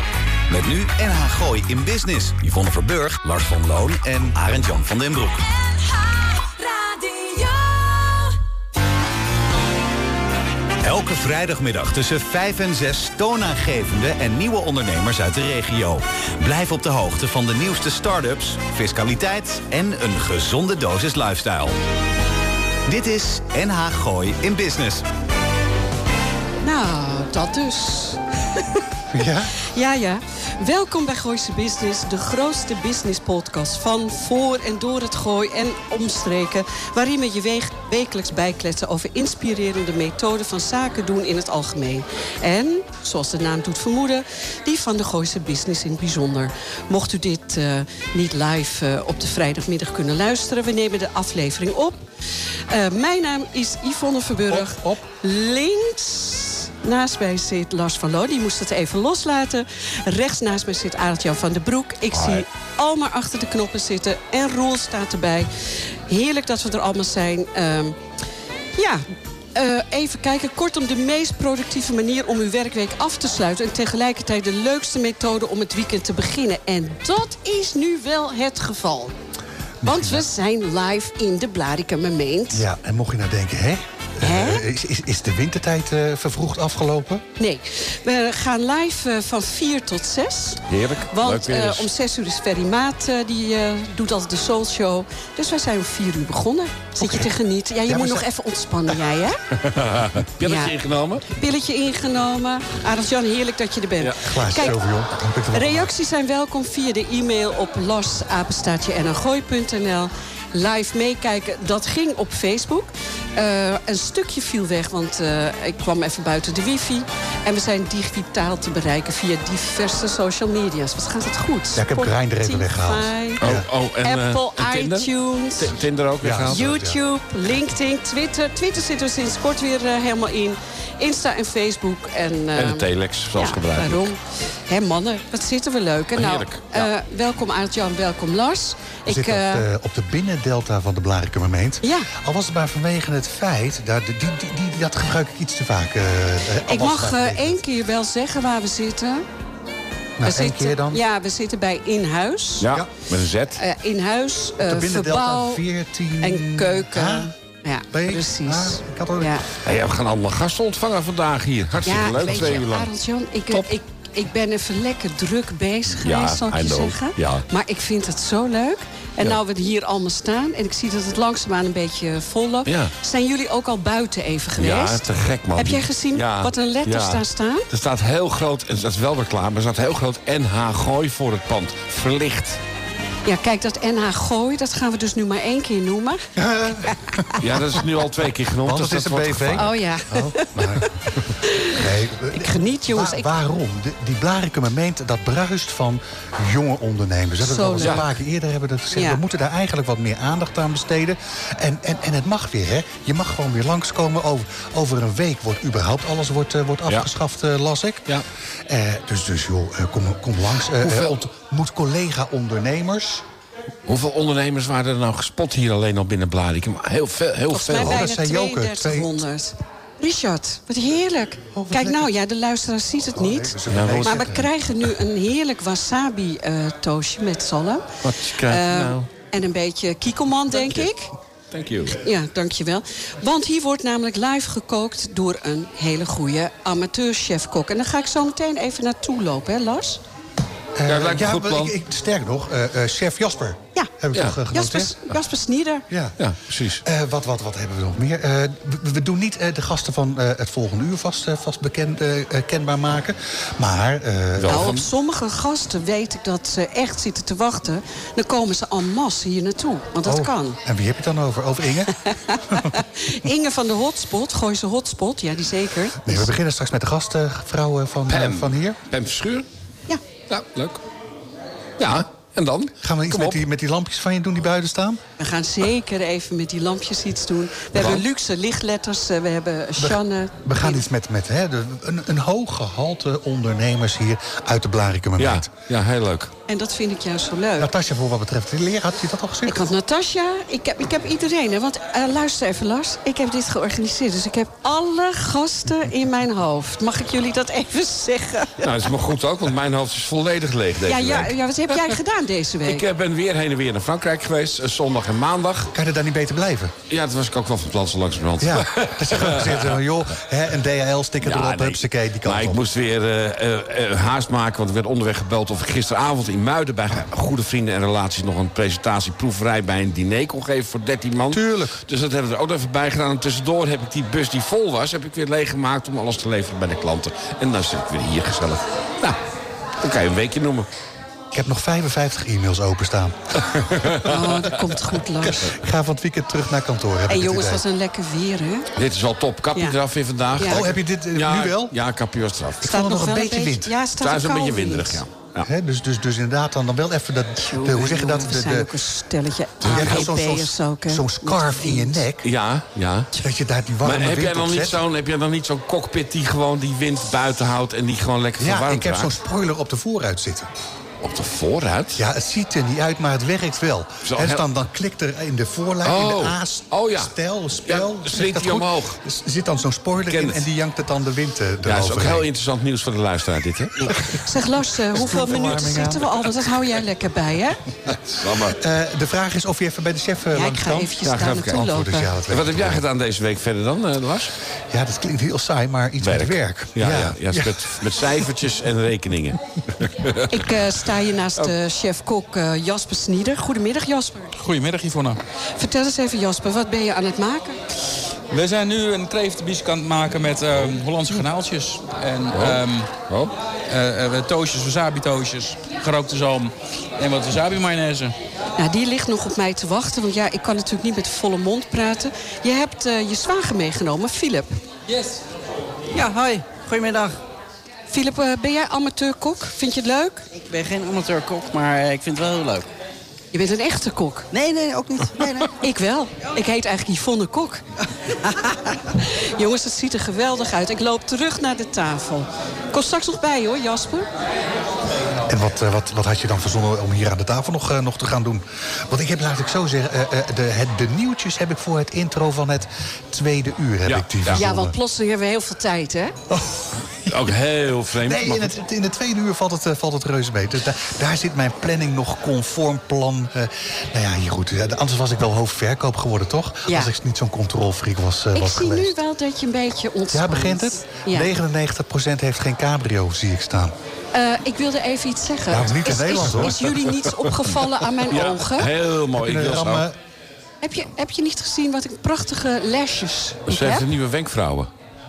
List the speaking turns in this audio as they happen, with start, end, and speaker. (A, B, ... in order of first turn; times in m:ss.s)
0:00.5-0:05.4 A
0:10.8-0:21.7 A
0:22.9-0:25.0 A
0:26.6-0:28.8 B
0:29.1-0:29.5 C
0:29.6-0:52.0 B
0:52.7-1:05.5 B
0:54.5-0:55.1 C
1:06.1-1:08.0 B
1:08.7-1:19.1 B
1:19.8-1:20.2 C
1:19.8-1:22.6 B
1:22.5-1:27.2 C
1:24.2-1:24.6 B
1:27.4-1:39.4 B
1:30.7-1:31.9 D
1:37.0-1:37.3 C
1:37.9-1:38.2 C
1:39.6-1:41.2 D
1:40.4-1:40.7 B
1:41.3-1:44.8 B
1:44.2-1:45.9 C
1:45.5-2:05.8 B
2:01.8-2:03.6 C
2:03.4-2:06.8 D
2:06.2-2:07.0 C
2:06.5-2:19.7 B
2:12.5-2:14.1 D
2:16.2-2:16.9 D
2:19.1-2:27.6 C
2:21.8-2:22.1 B
2:26.6-2:29.2 B
2:30.2-2:31.0 C
2:30.2-2:32.7 B
2:32.6-2:33.6 D
2:33.5-2:35.6 B
2:34.6-2:37.3 C
2:36.2-2:39.4 B
2:37.9-2:39.4 C
2:39.6-2:42.9 D
2:41.8-2:55.0 B
2:46.0-2:47.4 D
2:52.7-2:52.9 D
2:54.6-3:02.6 D
2:55.5-2:57.7 B
3:03.2-3:06.2 B
3:06.4-3:07.4 C
3:07.4-3:09.7 D
3:08.6-3:10.8 C
3:09.5-3:10.5 B
3:10.6-3:10.8 D
3:11.5-3:11.8 B
3:11.7-3:28.1 C
3:12.3-3:13.3 B
3:17.4-3:18.0 B
3:18.9-3:19.2 B
3:28.7-3:33.2 C
3:30.8-3:31.1 D
3:33.9-3:38.0 D
3:37.5-3:47.9 B
3:37.8-3:39.2 C
3:41.6-3:42.1 C
3:43.1-3:44.5 C
3:43.7-3:44.2 D
3:48.0-3:49.1 D
3:48.4-3:51.1 B
3:50.5-3:50.9 D
3:51.5-3:52.0 D
3:51.9-4:00.0 B
4:00.8-4:04.9 C
4:00.8-4:01.7 D
4:04.5-4:05.8 B
4:05.9-4:06.2 C
4:06.2-4:06.8 D
4:06.8-4:14.7 C
4:14.4-4:14.8 D
4:14.5-4:20.6 B
4:20.0-4:21.9 C
4:22.0-4:26.3 B
4:26.0-4:28.8 C
4:28.1-4:29.4 D
4:30.3-4:30.8 D
4:31.8-4:33.4 D
4:32.8-4:35.0 C
4:35.2-4:40.8 B
4:37.7-4:38.0 D
4:39.8-4:45.5 C
4:45.2-4:46.3 D
4:46.5-4:47.7 B
4:47.6-4:49.6 C
4:49.5-4:58.7 B
4:58.6-5:01.9 D
5:00.8-5:02.9 B
5:02.6-5:05.7 D
5:05.7-5:06.7 C
5:06.9-5:09.8 D
5:08.4-5:12.6 C
5:11.2-5:29.2 D
5:21.3-5:21.8 C
5:29.8-5:30.7 D
5:31.3-5:33.2 C
5:33.5-5:34.2 D
5:34.0-5:35.5 B
5:35.3-5:37.6 C
5:37.1-5:38.6 B
5:38.7-5:42.7 D
5:40.4-5:40.7 B
5:40.4-5:41.7 C
5:42.6-5:43.7 C
5:42.6-5:45.0 B
5:44.0-5:45.5 D
5:45.4-5:48.7 C
5:47.4-5:52.0 B
5:49.6-5:50.1 D
5:49.6-5:52.3 C
5:52.2-5:53.1 D
5:53.2-5:54.8 C
5:53.8-5:59.2 D
5:58.4-6:00.5 C
6:01.0-6:02.0 D
6:02.0-6:12.3 C
6:04.0-6:04.4 D
6:05.8-6:07.1 D
6:07.6-6:09.0 D
6:10.0-6:10.4 D
6:11.6-6:14.2 D
6:14.2-6:17.6 B
6:15.0-6:16.2 C
6:15.2-6:15.6 D
6:17.9-6:18.6 D
6:18.5-6:22.8 C
6:20.3-6:22.1 B
6:21.0-6:21.6 D
6:22.3-6:24.3 D
6:24.7-6:28.2 C
6:26.0-6:30.3 D
6:30.3-6:34.3 B
6:34.4-6:35.2 E
6:35.6-6:37.6 B
6:38.3-6:42.9 E
6:42.3-6:43.3 D
6:43.7-6:48.1 E
6:48.6-6:54.6 B
6:54.9-6:55.2 E
6:55.9-6:57.2 F
6:57.9-7:00.2 B
7:00.3-7:02.7 F
7:03.3-7:04.3 B
7:04.3-7:05.6 F
7:05.6-7:07.6 B
7:08.9-7:14.1 B
7:15.3-7:24.7 C
7:23.8-7:24.4 D
7:24.3-7:26.2 B
7:27.1-7:28.5 D
7:28.0-7:39.0 C
7:38.3-7:41.3 B
7:40.1-7:43.7 C
7:44.1-7:48.7 B
7:45.5-7:46.7 C
7:48.1-7:49.8 D
7:49.2-7:50.0 C
7:50.6-7:53.8 B
7:53.5-7:54.7 D